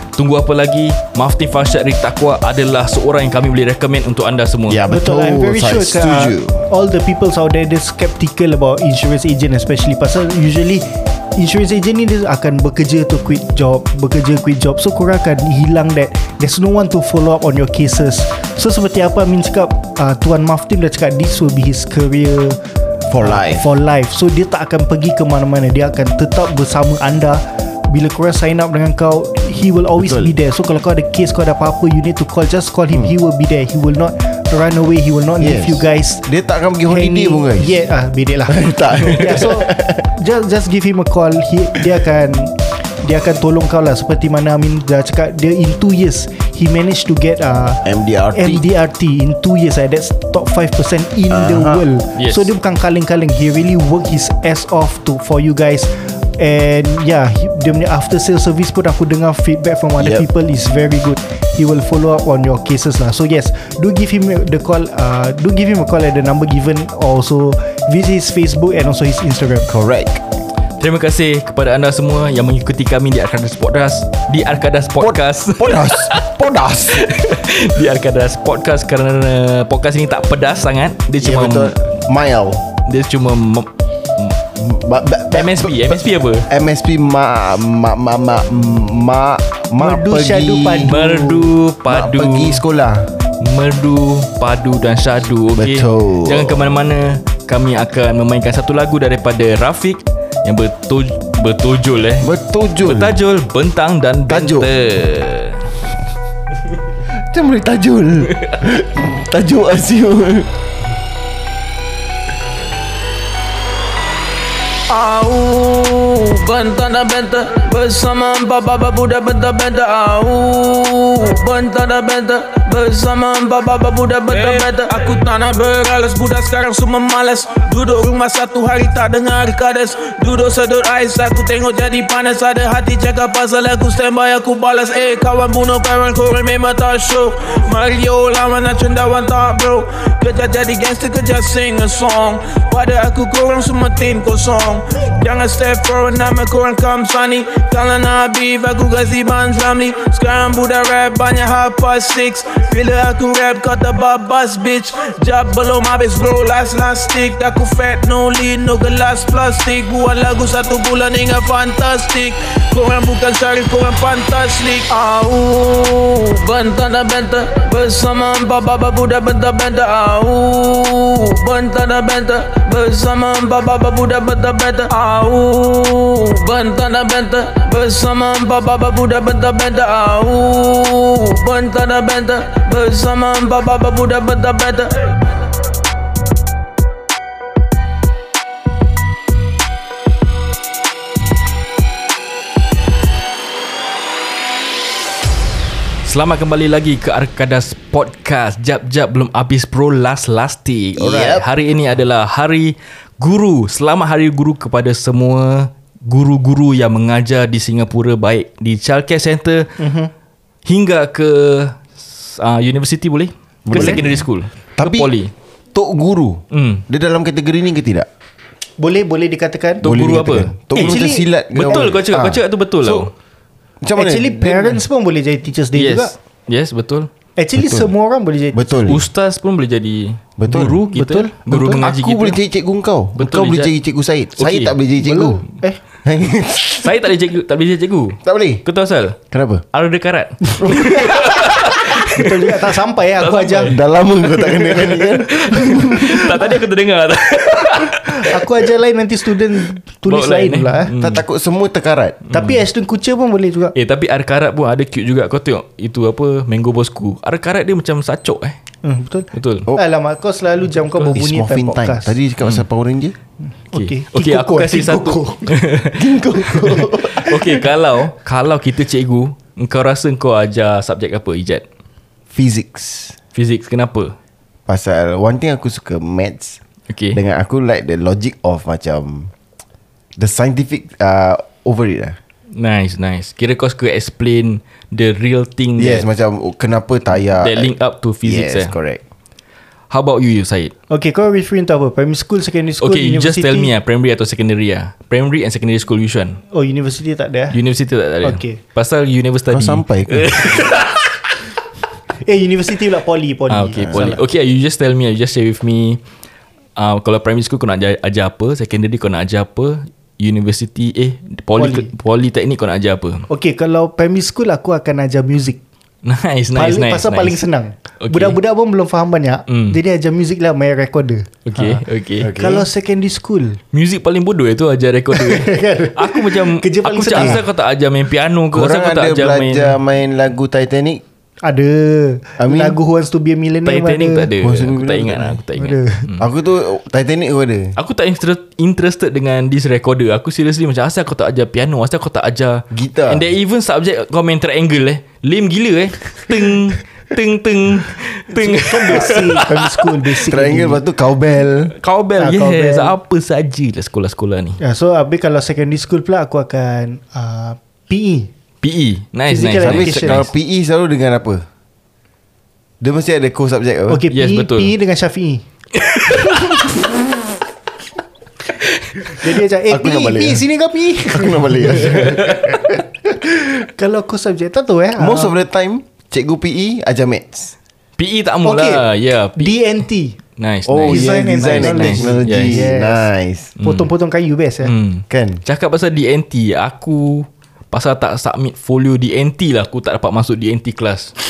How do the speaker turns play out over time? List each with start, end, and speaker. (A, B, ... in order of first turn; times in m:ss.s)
0:00.2-0:04.8 A
0:04.7-0:06.7 B
0:04.9-0:22.6 C
0:23.1-0:23.6 B
0:23.2-0:36.3 C
0:30.0-0:30.3 B
0:35.4-0:37.8 B
0:36.9-1:09.7 C
0:38.4-0:40.1 B
0:47.8-0:48.6 B
0:51.3-0:51.8 B
0:52.2-0:52.5 A
1:00.0-1:00.2 B
1:09.7-1:10.2 B
1:10.8-1:16.3 A
1:15.0-1:17.1 B
1:16.9-1:21.7 A
1:21.2-1:22.6 B
1:22.9-1:24.4 A
1:24.6-1:30.9 B
1:25.3-1:26.5 A
1:29.8-1:31.5 C
1:30.8-1:32.6 A
1:31.9-1:33.1 B
1:33.4-1:42.3 A
1:35.6-1:36.7 B
1:42.2-1:43.2 B
1:42.8-1:45.6 A
1:44.3-1:44.7 B
1:47.3-1:50.5 B
1:54.9-3:05.2 D
3:16.0-3:29.8 A
3:21.0-3:21.4 B
3:29.8-3:30.1 C
3:30.6-3:35.3 A
3:33.6-3:34.2 B
3:33.7-3:34.0 C
3:34.8-3:35.1 B
3:35.7-3:38.1 B
3:36.5-3:36.8 A
3:38.8-3:39.9 C
3:39.8-3:43.1 A
3:39.8-3:43.1 B
3:40.8-3:41.9 C
3:43.8-3:44.8 B
3:43.9-3:46.1 C
3:45.7-3:47.1 A
3:47.4-3:48.7 C
3:47.5-3:47.9 B
3:48.5-3:49.0 B
3:48.9-3:52.4 A
3:50.4-3:55.4 B
3:50.9-3:51.3 C
3:53.2-3:53.7 A
3:54.4-3:54.8 A
3:55.0-3:55.8 C
3:56.0-3:56.9 B
3:56.8-3:59.2 A
3:58.2-3:58.6 B
3:59.3-3:59.6 B
3:59.7-4:08.5 A
4:00.6-4:01.4 B
4:01.8-4:03.8 C
4:03.6-4:06.5 B
4:06.0-4:06.5 C
4:07.9-4:10.9 C
4:10.0-4:11.2 A
4:11.0-4:12.2 B
4:12.3-4:12.6 A
4:12.3-4:13.7 C
4:13.7-4:18.6 A
4:18.8-4:22.2 C
4:19.3-4:19.7 A
4:20.9-4:21.2 A
4:21.1-4:23.1 B
4:23.7-4:25.6 C
4:23.7-4:31.6 A
4:25.9-4:27.6 B
4:32.3-4:33.2 B
4:33.3-4:34.1 A
4:34.7-4:36.6 B
4:36.9-4:37.2 A
4:37.1-4:39.3 B
4:40.2-4:42.2 B
4:42.5-4:46.1 A
4:45.8-4:47.7 B
4:47.4-4:48.7 A
4:48.2-4:49.0 B
4:49.9-4:50.7 A
4:50.9-4:53.7 C
4:52.8-4:56.4 A
4:56.5-4:57.6 C
4:57.5-5:01.2 A
4:58.2-4:58.6 C
4:59.5-5:00.7 B
5:02.2-5:04.2 C
5:03.5-5:06.0 A
5:03.8-5:04.1 B
5:06.8-5:13.2 A
5:11.6-5:11.9 C
5:13.3-5:15.6 C
5:16.0-5:17.4 A
5:16.5-5:21.8 C
5:18.0-5:18.4 A
5:19.5-5:19.8 A
5:21.4-5:22.3 A
5:22.2-5:22.7 B
5:22.3-5:23.6 C
5:23.7-5:29.8 A
5:25.1-5:27.4 C
5:27.1-5:27.4 B
5:28.5-5:31.0 B
5:31.4-5:34.3 C
5:32.4-5:32.8 B
5:33.6-5:36.2 A
5:34.4-5:35.4 B
5:35.6-5:36.1 C
5:36.2-5:37.7 B
5:37.8-5:49.9 A
5:42.7-5:43.2 B
5:48.3-5:50.8 C
5:50.2-5:51.7 B
5:51.8-5:54.6 A
5:52.2-5:53.0 C
5:54.6-5:58.3 C
5:58.6-6:00.3 A
5:59.3-6:00.3 C
5:59.6-6:01.4 B
6:02.8-6:04.0 B
6:03.9-6:05.4 C
6:04.1-6:04.7 A
6:05.8-6:06.6 A
6:08.6-6:09.1 A
6:09.0-6:15.4 C
6:09.7-6:10.4 B
6:11.1-6:12.8 B
6:11.8-6:12.4 A
6:15.0-6:17.5 B
6:18.0-6:19.6 A
6:18.4-6:18.8 C
6:19.4-6:20.2 C
6:20.4-6:22.6 A
6:20.6-6:23.5 B
6:20.9-6:23.1 C
6:23.6-6:23.9 A
6:23.6-6:24.7 C
6:24.6-6:31.1 A
6:25.1-6:25.4 B